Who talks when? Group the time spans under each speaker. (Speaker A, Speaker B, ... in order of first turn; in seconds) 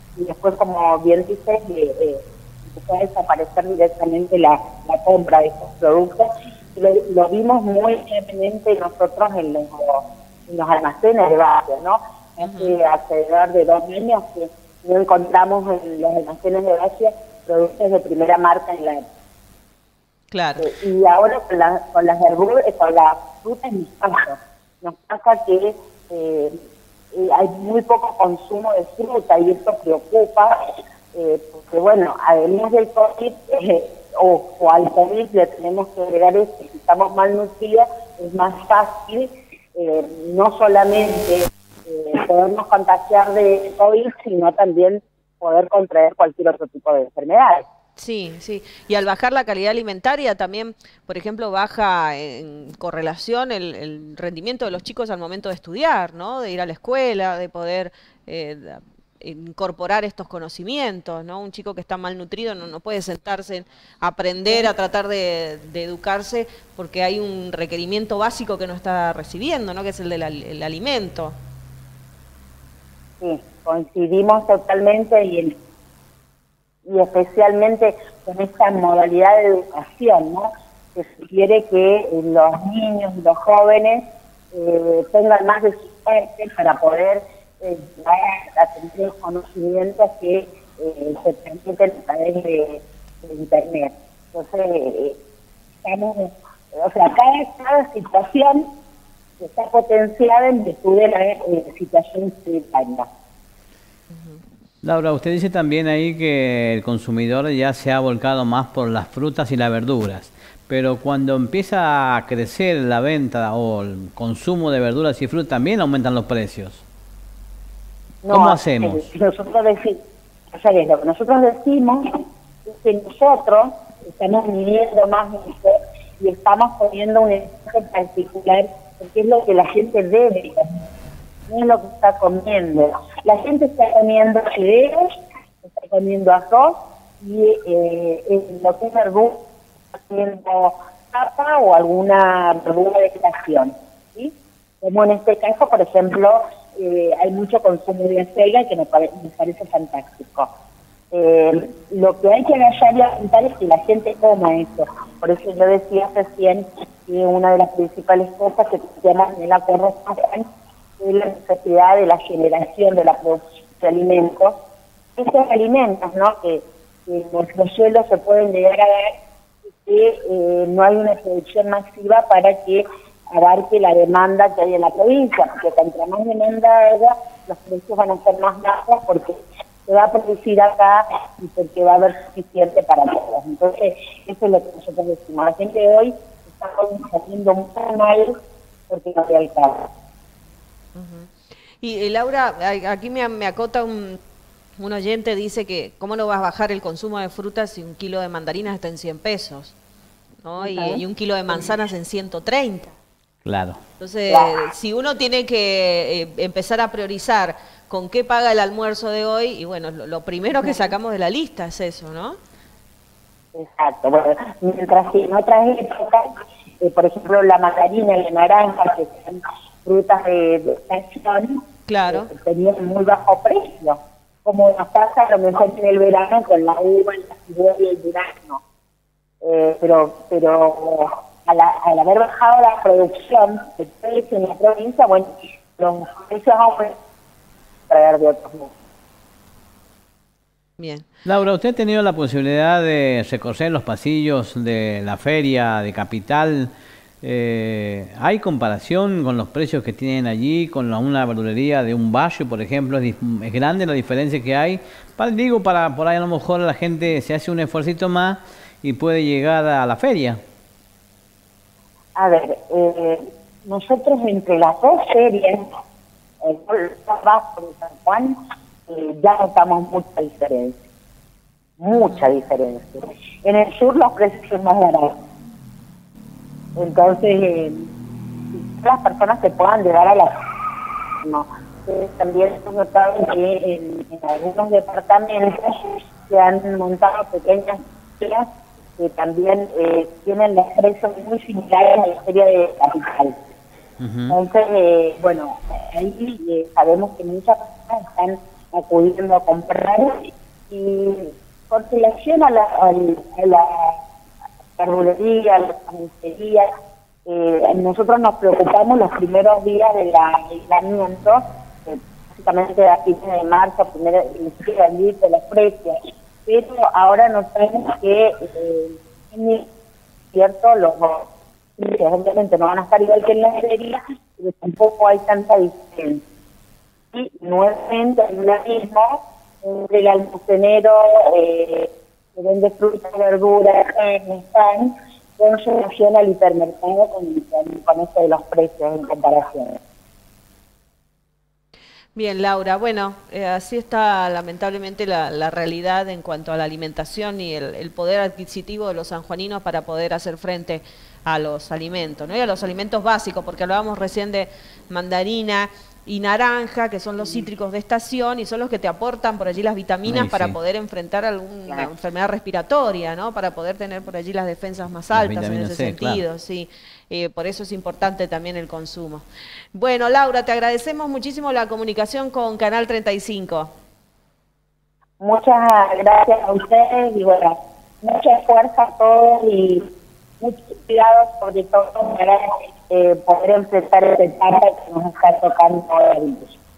Speaker A: 0.2-19.0, 20.6-26.5, 27.1-30.5, 31.1-47.6, 73.2-75.5, 76.9-95.2, 95.8-98.7, 99.4-103.1, 118.2-120.0, 120.5-122.0, 122.7-130.8, 131.5-139.4, 140.1-150.5, 151.1-160.4, 161.0-164.6, 165.2-169.1, 169.7-188.3, 188.9-189.9, 200.6-201.7, 204.3-204.5, 210.6-210.9, 213.5-216.3, 216.8-228.6, 229.4-236.9, 237.9-238.7, 262.2-265.6, 266.4-268.4, 268.9-270.8, 271.8-275.1, 276.8-277.9, 278.5-280.3, 281.2-285.7, 286.3-288.5, 289.0-293.4, 294.3-300.2, 300.7-304.0, 304.8-306.7, 307.3-319.7, 320.3-321.3, 321.8-326.2, 327.1-339.8, 357.2-357.5, 375.2-379.9, 380.4-386.6
Speaker B: 12.4-12.8, 20.3-20.6, 48.0-71.4, 104.1-104.4, 190.9-194.2, 194.8-199.7, 200.4-202.9, 204.0-212.4, 221.9-222.3, 240.8-241.1, 271.9-272.3, 342.1-373.7
Speaker C: 104.8-116.8, 118.3-119.0, 203.4-203.8, 241.2-246.7, 247.2-260.4, 294.0-294.4, 360.1-360.6, 365.1-366.2